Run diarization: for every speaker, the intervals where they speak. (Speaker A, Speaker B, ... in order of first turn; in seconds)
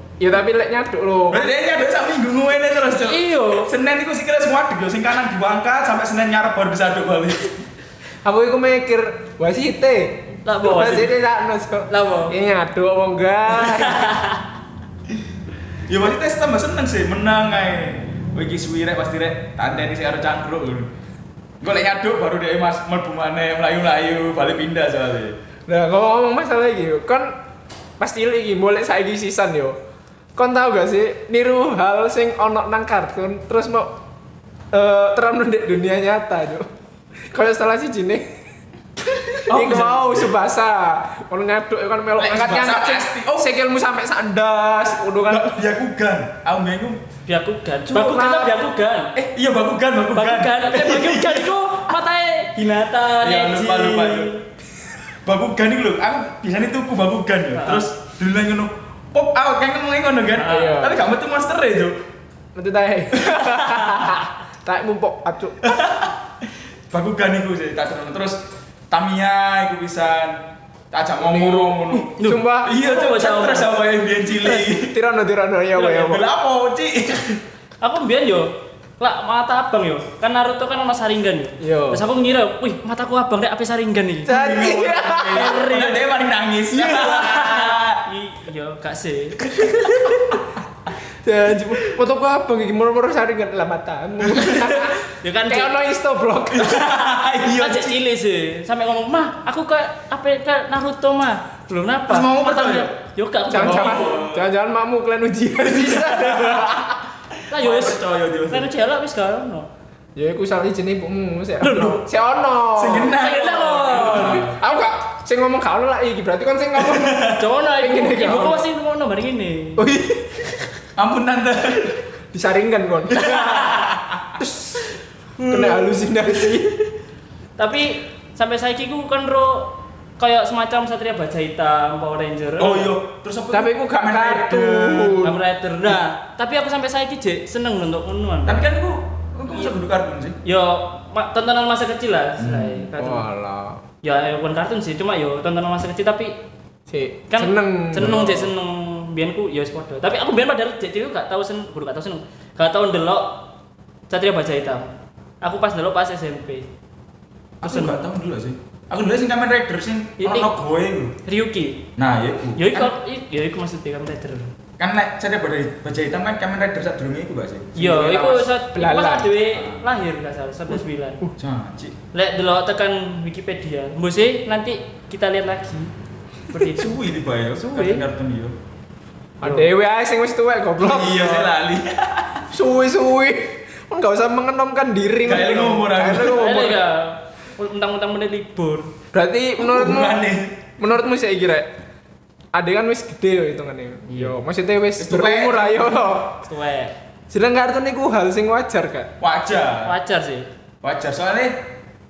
Speaker A: 0.2-1.5, 8.2-14.2, 25.7-27.3, 28.0-29.8, 30.4-33.9, 34.7-36.7, 37.3-38.3, 39.5-45.6, 47.9-48.6, 60.4-61.0, 62.6-65.8, 71.2-72.8, 74.4-76.2, 81.6-82.0, 84.3-85.8, 86.7-87.4, 91.2-96.9, 103.5-107.0, 110.2-113.1, 113.9-117.2, 117.8-118.7, 119.8-120.6, 122.3-124.9, 125.5-126.9, 133.5-135.4, 143.0-143.8, 146.9-148.2, 167.9-169.4, 179.4-181.5, 182.5-186.8, 189.1-190.2, 190.8-191.7, 192.6-196.4, 197.3-199.1
Speaker B: 1.3-7.5, 15.9-20.9, 21.6-25.4, 39.3-40.4, 42.2-43.5, 45.3-47.0, 49.1-51.8, 53.2-54.3, 55.2-62.0, 63.2-64.2, 65.6-66.2, 66.9-70.4, 70.9-75.0, 75.8-77.4, 84.3-88.0, 89.5-90.5, 94.3-94.7, 96.5-98.0, 102.1-103.0, 103.6-104.5, 105.6-108.7, 111.6-112.0, 112.8-114.5, 116.8-117.4, 121.0-122.0, 123.1-124.3, 132.6-135.3, 138.5-140.4, 142.4-142.9, 148.0-148.5, 157.6-161.2, 162.0-162.9, 164.8-168.5, 169.5-169.8, 171.4-171.9, 176.7-178.6, 180.8-182.4, 185.2-186.6, 189.6-190.6, 195.0-196.2, 199.2-199.9, 200.8-201.6
Speaker C: 2.9-3.7, 10.4-11.2, 11.9-12.3, 13.6-14.4, 47.3-49.1, 50.1-54.4, 57.5-57.9, 60.5-60.7, 72.2-73.8, 77.8-84.3, 85.3-86.0, 87.1-89.4, 95.1-95.8, 97.6-104.2, 107.5-109.7, 111.6-112.0, 113.0-114.5, 117.3-119.8, 125.4-126.5, 127.6-132.9, 135.2-138.7, 140.4-143.3, 144.0-146.3, 147.3-153.4, 154.1-154.9, 155.4-156.7, 157.6-158.1, 160.2-160.5, 161.2-161.9, 162.6-164.5, 167.8-171.2, 172.1-175.9, 176.5-177.0, 177.6-178.0, 179.4-179.7, 186.2-188.9, 194.1-194.3, 196.4-196.9, 199.7-200.5